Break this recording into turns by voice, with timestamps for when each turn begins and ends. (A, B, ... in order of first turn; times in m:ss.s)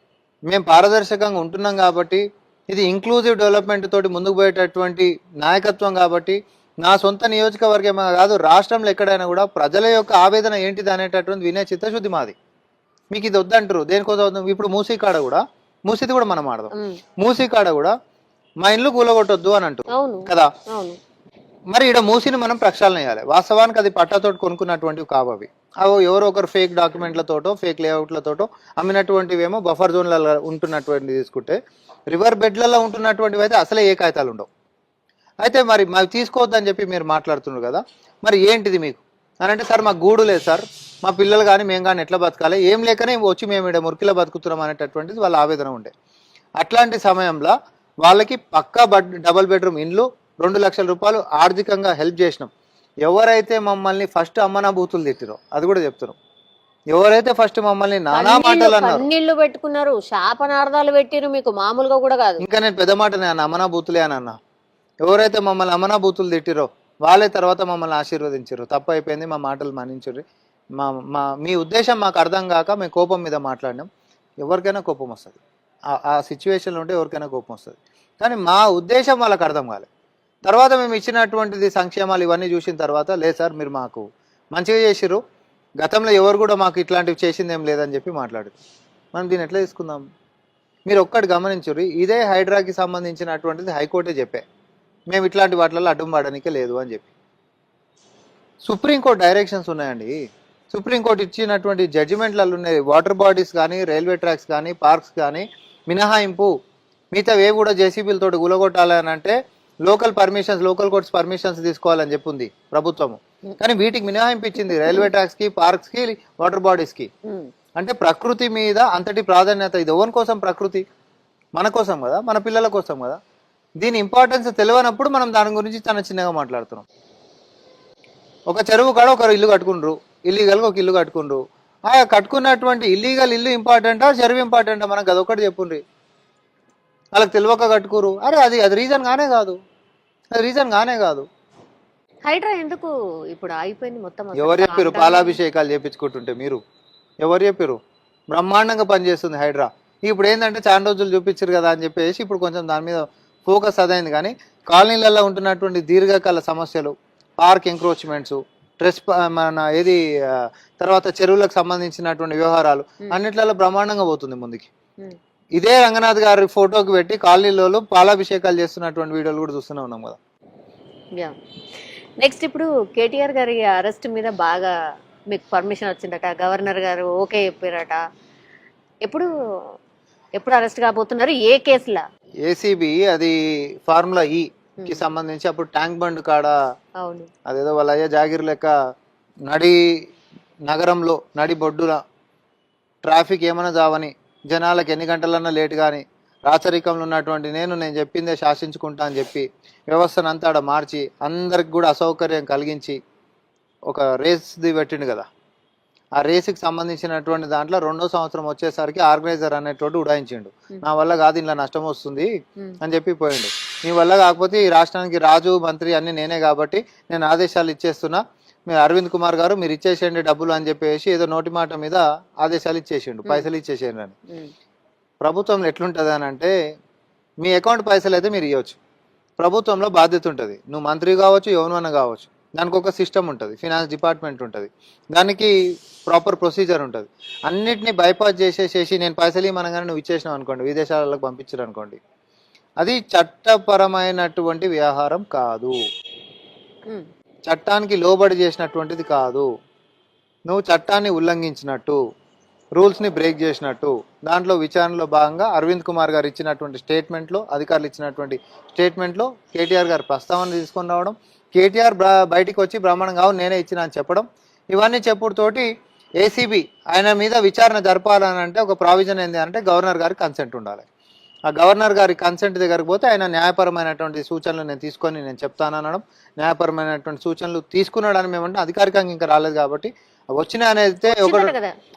0:00.5-0:12.4 A
0:13.1-0:17.9 A
0:16.7-0:17.0 B
0:18.6-0:20.5 A
0:19.9-0:21.0 B
0:21.7-0:31.6 A
0:32.1-0:34.5 A
0:35.4-0:45.9 A
0:46.6-0:52.5 A
0:53.0-0:56.2 A
0:56.9-0:59.1 A
0:58.1-1:02.4 B
1:02.4-1:04.4 A
1:05.0-1:10.2 A
1:10.8-1:13.9 A
1:14.4-1:15.4 A
1:15.9-1:19.9 A
1:20.5-1:25.2 A
1:25.8-1:28.6 A
1:29.1-1:30.0 A
1:30.9-1:34.4 A
1:35.1-1:37.1 A
1:38.6-1:40.2 A
1:40.7-1:46.5 A
1:47.1-1:57.1 A
1:57.8-2:00.8 A
2:01.6-2:03.2 A
2:03.8-2:06.8 A
2:08.5-2:15.8 A
2:17.1-2:19.6 A
2:20.4-2:21.3 A
2:22.2-2:25.4 B
2:24.4-2:26.6 A
2:27.2-2:27.8 A
2:28.3-2:44.7 A
2:45.6-2:50.2 A
2:52.2-2:54.7 B
2:55.3-2:58.0 B
2:59.0-2:59.8 B
3:00.4-3:02.0 B
3:02.4-3:06.5 A
3:07.0-3:07.3 B
3:07.5-3:08.7 A
3:09.5-3:09.9 A
3:10.7-3:12.0 A
3:13.1-3:23.0 A
3:23.9-3:25.3 A
3:26.2-3:44.2 A
3:45.2-3:46.5 A
3:47.4-3:48.8 A
3:49.4-3:55.5 A
3:56.1-4:02.0 A
4:02.8-4:05.8 A
4:07.5-4:09.5 A
4:10.5-4:12.0 A
4:12.8-4:25.7 A
4:26.2-4:30.9 A
4:31.5-4:41.5 A
4:41.1-4:41.7 B